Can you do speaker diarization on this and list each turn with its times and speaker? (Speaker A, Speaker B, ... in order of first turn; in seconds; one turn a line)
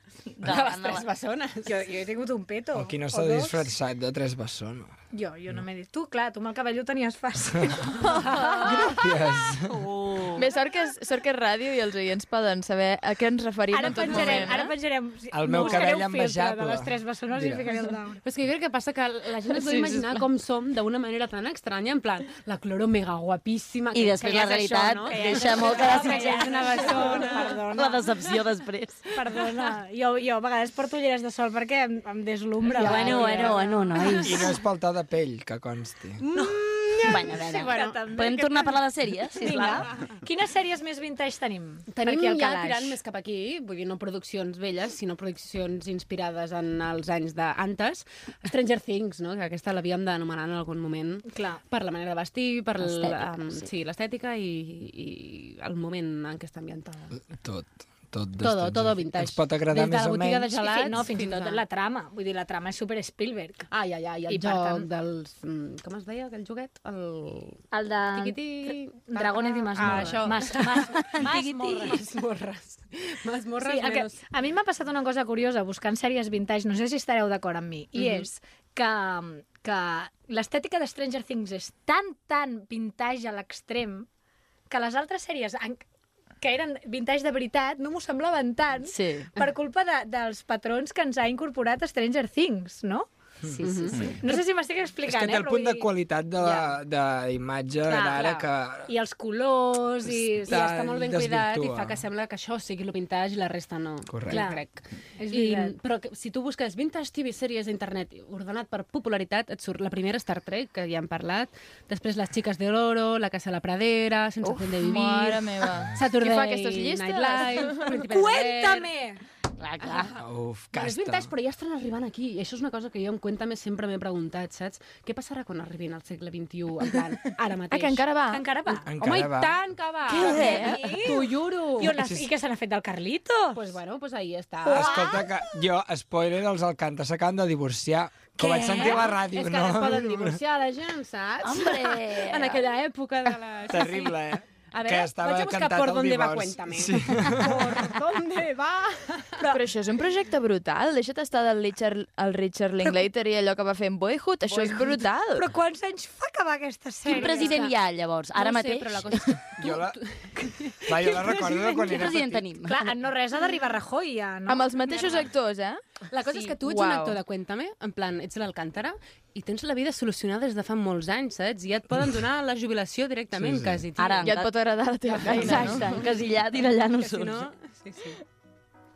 Speaker A: 0.4-1.1
Speaker B: 0.4-1.9
Speaker C: 1.7-3.7
Speaker D: 2.7-4.9
Speaker C: 5.1-8.8
Speaker D: 8.7-9.8
Speaker A: 9.7-10.5
Speaker E: 10.4-14.7
Speaker C: 13.7-18.2
Speaker D: 15.3-17.7
Speaker B: 15.5-15.9
Speaker B: 18.2-27.7
Speaker E: 19.5-20.2
Speaker A: 23.9-29.0
Speaker C: 25.1-28.1
Speaker C: 29.1-34.3
Speaker B: 32.8-33.7
Speaker A: 32.8-34.5
Speaker D: 34.2-36.2
Speaker B: 36.3-38.7
Speaker A: 37.0-39.9
Speaker C: 37.7-38.6
Speaker C: 39.4-43.0
Speaker B: 39.4-40.2
Speaker B: 41.9-57.2
Speaker C: 51.3-51.6
Speaker A: 52.8-53.7
Speaker D: 57.2-60.5
Speaker B: 58.4-61.6
Speaker C: 60.5-63.7
Speaker B: 63.7-74.2
Speaker C: 64.3-64.9
Speaker C: 67.7-72.0
Speaker A: 70.8-72.0
Speaker C: 73.6-84.1
Speaker B: 78.0-78.3
Speaker C: 84.7-85.8
Speaker C: 86.4-95.9
Speaker A: 89.0-89.3
Speaker B: 93.6-94.2
Speaker D: 95.0-98.9
Speaker B: 96.4-96.7
Speaker C: 97.9-100.7
Speaker B: 97.9-98.4
Speaker D: 100.0-102.0
Speaker B: 100.5-118.9
Speaker D: 104.1-104.5
Speaker C: 104.3-104.6
Speaker C: 105.2-105.8
Speaker E: 114.4-117.9
Speaker C: 117.7-119.2
Speaker A: 119.6-120.2
Speaker D: 120.2-121.3
Speaker B: 120.7-128.1
Speaker E: 127.7-128.5
Speaker C: 128.3-128.9
Speaker D: 128.9-129.6
Speaker B: 128.9-132.0
Speaker E: 130.1-131.0
Speaker C: 130.2-131.2
Speaker C: 131.8-133.7
Speaker D: 132.0-132.3
Speaker B: 133.5-135.3
Speaker C: 134.6-135.3
Speaker D: 134.7-140.4
Speaker B: 138.4-144.2
Speaker C: 138.6-139.0
Speaker A: 141.4-142.6
Speaker D: 143.7-147.8
Speaker B: 144.7-149.4
Speaker E: 149.5-155.5
Speaker C: 152.8-153.1
Speaker C: 154.5-157.6
Speaker B: 157.1-157.8
Speaker A: 157.1-159.4
Speaker B: 158.3-161.7
Speaker D: 159.6-160.0
Speaker D: 160.8-162.5
Speaker A: 161.8-162.8
Speaker C: 162.7-164.7
Speaker E: 164.5-167.2
Speaker B: 164.9-165.2
Speaker B: 166.1-174.4
Speaker D: 173.3-173.9
Speaker A: 174.0-174.6
Speaker E: 174.2-176.0
Speaker B: 175.1-176.1
Speaker A: 175.2-177.5
Speaker B: 177.0-178.2